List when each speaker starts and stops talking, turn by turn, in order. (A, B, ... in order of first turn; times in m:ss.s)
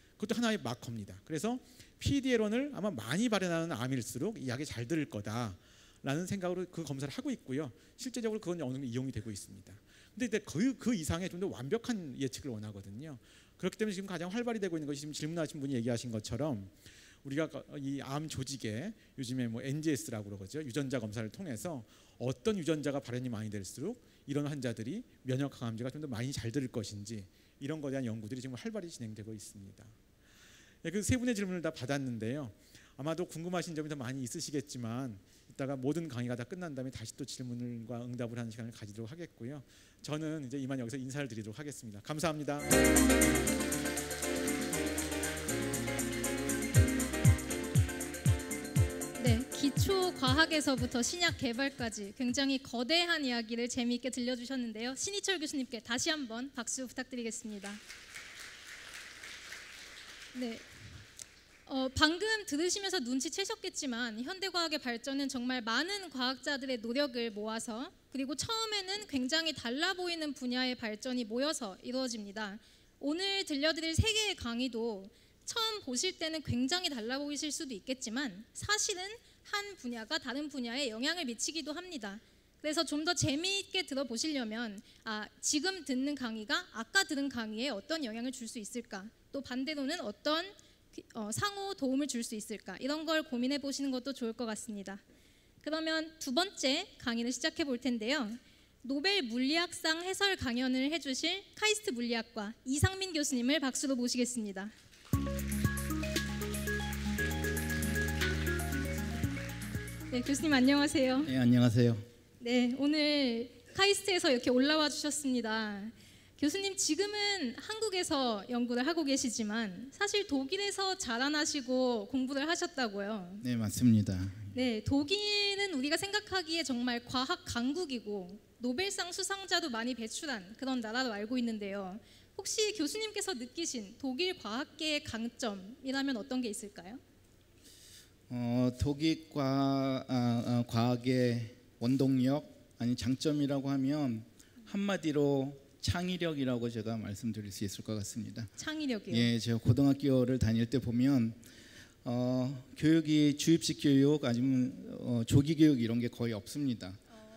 0:00.2-0:30.0 A
0:30.8-0:42.7 A
0:49.2-0:57.8 B
1:00.3-1:00.6 B
1:01.7-1:35.0 B
1:35.6-1:44.7 B
1:50.1-1:51.3 B
1:51.2-1:52.0 C
1:52.4-2:03.4 B
2:03.4-2:04.5 C
2:04.5-2:17.0 B
2:18.3-2:28.5 C
2:28.6-2:29.3 B
2:29.1-2:31.4 C
2:32.0-2:37.0 C